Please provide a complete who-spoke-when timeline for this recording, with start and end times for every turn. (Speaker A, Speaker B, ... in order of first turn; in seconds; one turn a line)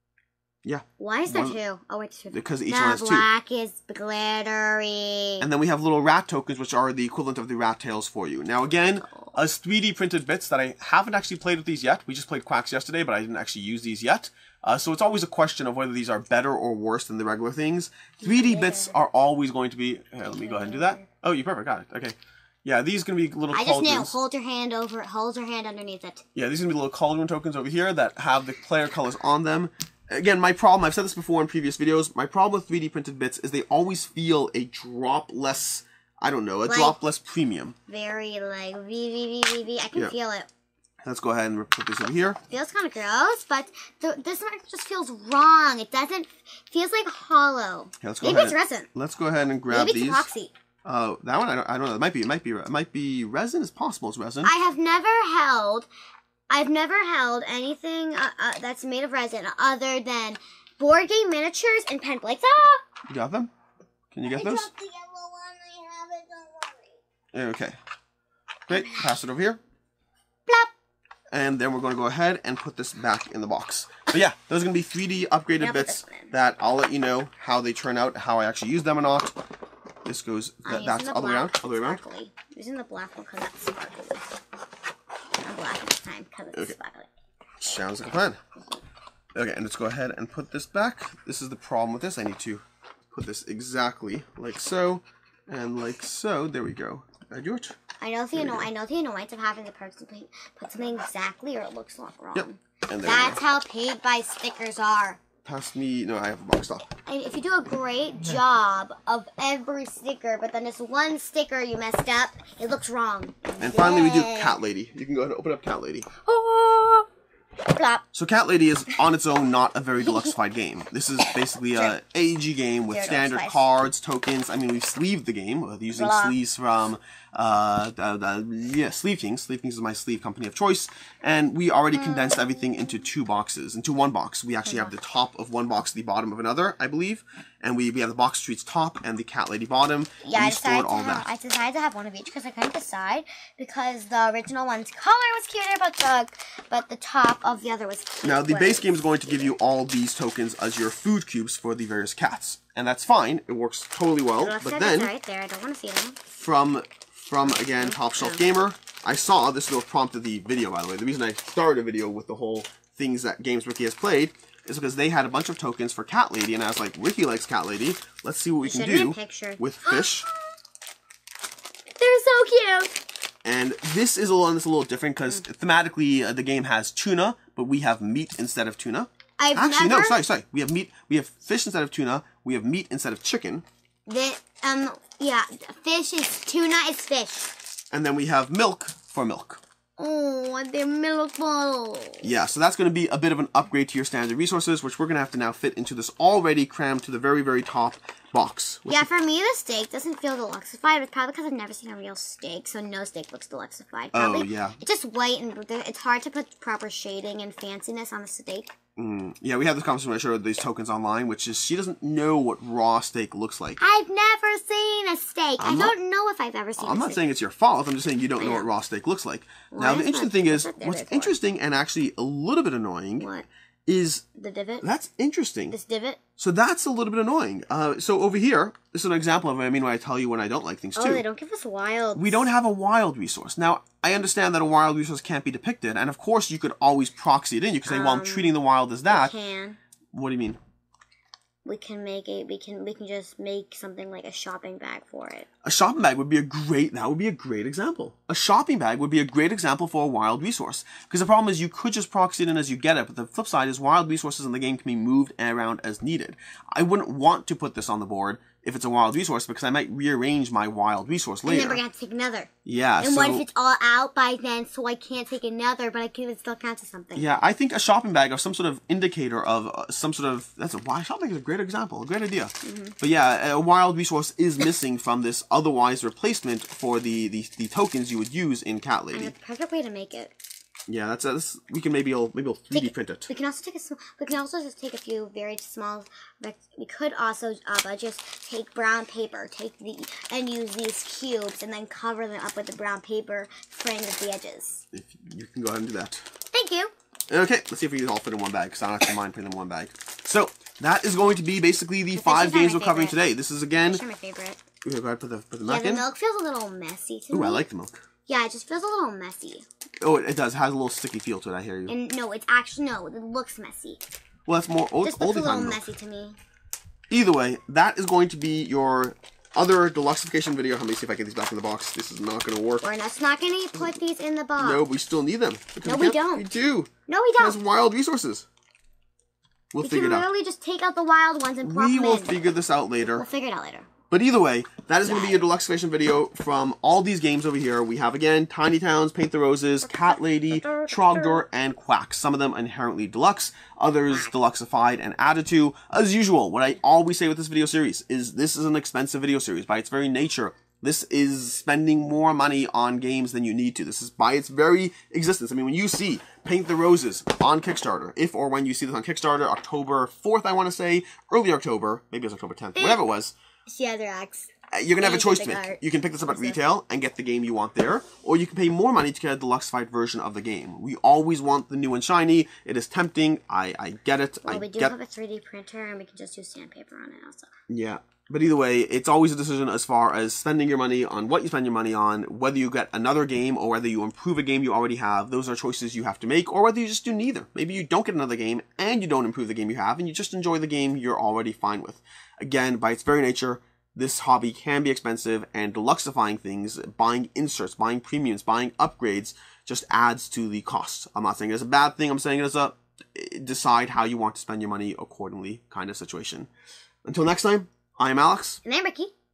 Speaker A: 0.6-1.6
Speaker B: 1.0-5.5
Speaker A: 2.3-3.3
Speaker A: 5.4-24.2
Speaker B: 9.1-9.3
Speaker B: 18.2-19.0
Speaker B: 20.2-21.1
Speaker B: 23.5-26.2
Speaker A: 26.4-37.8
Speaker B: 36.7-37.0
Speaker B: 37.9-40.5
Speaker A: 41.0-42.4
Speaker B: 42.5-48.9
Speaker A: 48.0-50.3
Speaker B: 49.7-50.5
Speaker A: 50.9-54.5
Speaker B: 54.4-55.9
Speaker B: 56.5-62.8
Speaker A: 63.1-63.5
Speaker A: 64.1-64.7
Speaker B: 64.3-67.0
Speaker A: 67.3-67.8
Speaker A: 68.7-69.6
Speaker B: 68.7-69.0
Speaker A: 71.3-79.3
Speaker B: 75.6-76.3
Speaker A: 80.0-82.0
Speaker B: 80.7-84.3
Speaker B: 85.4-87.1
Speaker A: 87.6-88.4
Speaker A: 89.3-97.8
Speaker B: 98.0-105.2
Speaker A: 98.3-98.7
Speaker A: 102.3-103.4
Speaker A: 105.5-106.9
Speaker B: 107.1-114.6
Speaker A: 113.6-116.1
Speaker B: 116.2-117.1
Speaker B: 117.6-118.1
Speaker A: 118.1-141.3
Speaker B: 120.0-120.3
Speaker B: 122.9-123.6
Speaker B: 125.9-126.4
Speaker B: 131.9-132.7
Speaker B: 134.7-134.9
Speaker B: 140.2-149.0
Speaker A: 148.2-155.1
Speaker B: 154.4-156.2
Speaker A: 156.3-170.3
Speaker B: 157.5-158.4
Speaker B: 168.6-170.4
Speaker B: 172.0-172.9
Speaker A: 173.4-183.7
Speaker B: 179.4-180.2
Speaker B: 184.1-187.6
Speaker A: 187.9-189.6
Speaker B: 190.0-192.3
Speaker A: 192.2-199.1
Speaker B: 198.9-208.7
Speaker A: 204.1-204.8
Speaker A: 209.0-213.8
Speaker B: 213.8-217.2
Speaker A: 215.6-215.9
Speaker A: 216.8-223.3
Speaker B: 218.4-218.7
Speaker B: 219.7-221.3
Speaker B: 223.2-223.5
Speaker A: 223.9-224.2
Speaker B: 224.3-224.8
Speaker A: 224.8-225.8
Speaker B: 225.7-226.2
Speaker A: 226.4-231.2
Speaker B: 230.9-232.5
Speaker A: 232.2-239.3
Speaker B: 237.8-239.8
Speaker A: 240.1-240.6
Speaker B: 241.7-245.5
Speaker A: 245.6-261.8
Speaker B: 261.5-267.3
Speaker A: 262.6-263.4
Speaker A: 267.1-279.3
Speaker B: 272.6-273.0
Speaker B: 279.1-280.4
Speaker A: 280.9-283.3
Speaker B: 282.7-294.8
Speaker A: 294.9-296.2
Speaker B: 296.5-296.9
Speaker A: 297.3-304.0
Speaker B: 302.1-303.2
Speaker B: 303.8-304.6
Speaker A: 304.8-306.0
Speaker B: 305.6-307.6
Speaker A: 307.3-308.0
Speaker B: 308.3-309.6
Speaker A: 310.0-311.9
Speaker B: 311.9-314.0
Speaker A: 314.5-315.8
Speaker B: 315.0-316.4
Speaker A: 317.1-322.9
Speaker B: 322.8-324.8
Speaker A: 324.6-328.5
Speaker B: 325.9-326.5
Speaker B: 327.1-327.6
Speaker A: 329.7-330.3
Speaker B: 329.8-332.3
Speaker A: 331.6-333.3
Speaker B: 333.0-333.9
Speaker A: 334.1-363.3
Speaker B: 335.1-335.4
Speaker B: 339.8-341.4
Speaker B: 362.8-363.0
Speaker B: 363.7-366.6
Speaker A: 364.7-374.9
Speaker B: 374.4-377.5
Speaker A: 377.7-406.5
Speaker A: 407.1-408.6
Speaker B: 408.6-409.1